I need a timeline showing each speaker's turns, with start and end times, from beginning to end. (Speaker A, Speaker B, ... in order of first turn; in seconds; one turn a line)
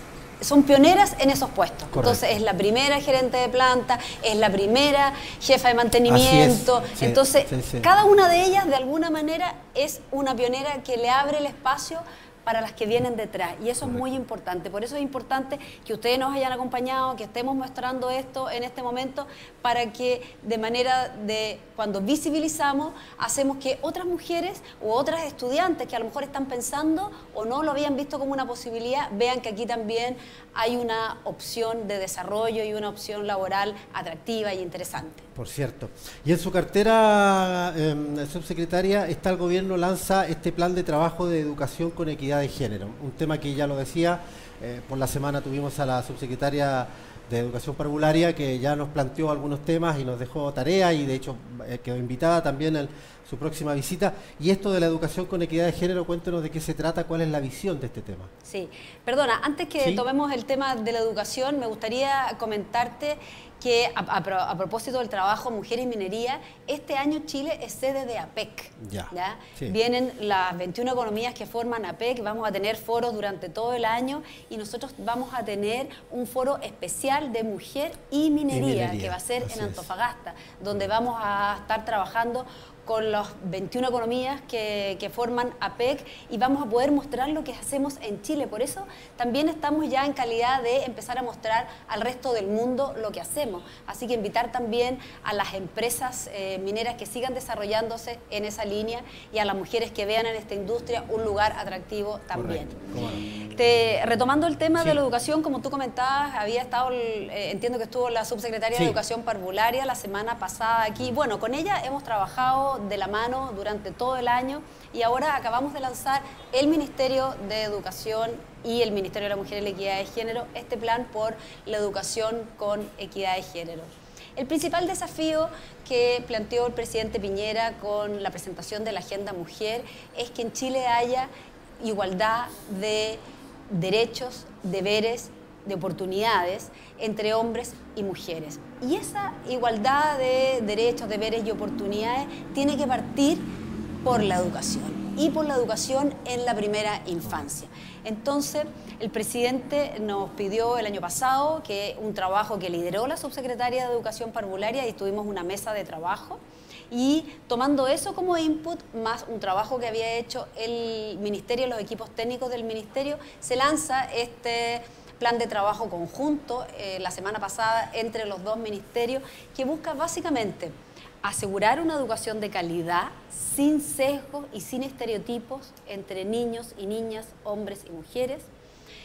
Speaker A: 0.4-35.3
Speaker B: 1.9-2.2
Speaker B: 6.1-7.9
Speaker B: 35.4-58.3
Speaker A: 58.5-102.8
Speaker B: 68.8-69.7
Speaker B: 78.5-79.8
Speaker B: 102.3-103.2
Speaker A: 103.5-131.3
Speaker B: 108.8-109.0
Speaker A: 131.8-143.4
Speaker A: 144.1-178.5